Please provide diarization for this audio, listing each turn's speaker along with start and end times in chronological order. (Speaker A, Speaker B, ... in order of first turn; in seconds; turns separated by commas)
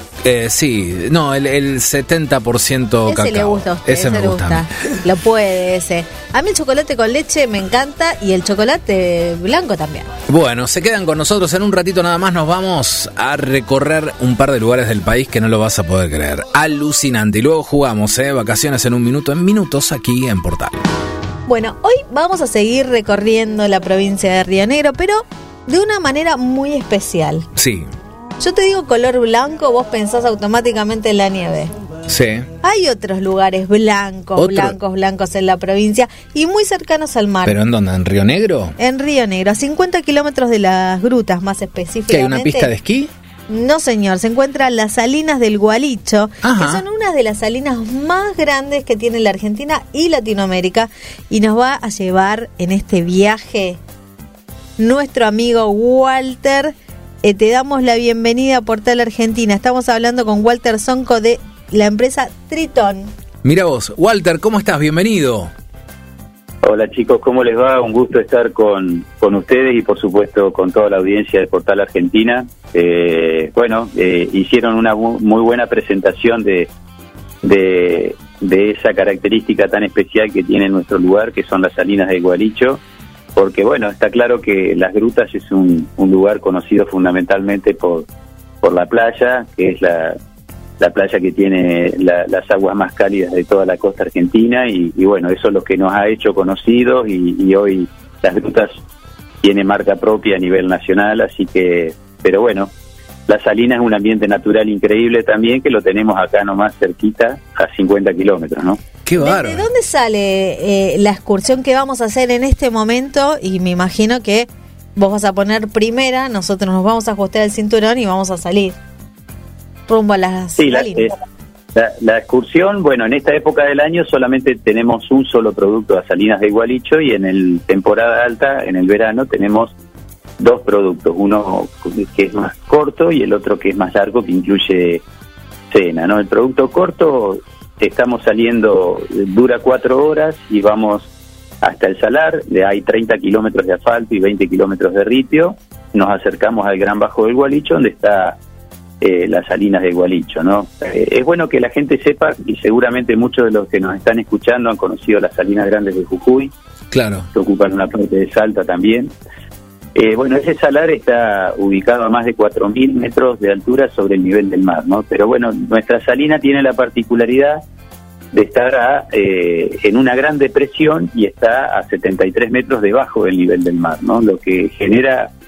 Speaker A: 0.2-4.7, Speaker B: 3.1-10.1, Speaker A: 10.3-20.9, Speaker B: 21.5-27.5, Speaker A: 27.6-27.9, Speaker B: 28.4-31.7, Speaker A: 32.1-32.5, Speaker B: 32.6-37.6, Speaker A: 34.4-34.8, Speaker A: 37.4-38.8, Speaker B: 38.8-42.7, Speaker A: 42.1-43.1, Speaker B: 43.5-53.8, Speaker A: 46.4-46.8, Speaker B: 54.8-63.1, Speaker A: 63.4-65.5, Speaker C: 66.6-76.7, Speaker C: 77.4-82.8, Speaker C: 83.3-88.1, Speaker C: 88.6-90.2, Speaker C: 90.8-98.8, Speaker C: 99.4-102.7, Speaker C: 103.3-108.8, Speaker A: 109.1-109.7, Speaker B: 109.2-118.8, Speaker B: 119.9-121.1, Speaker C: 120.6-121.1, Speaker C: 121.8-129.7, Speaker C: 130.4-135.0, Speaker C: 135.7-141.1, Speaker C: 141.6-148.4, Speaker C: 149.0-156.5, Speaker A: 156.9-157.3, Speaker C: 157.3-159.1, Speaker C: 160.0-167.6, Speaker C: 168.3-175.3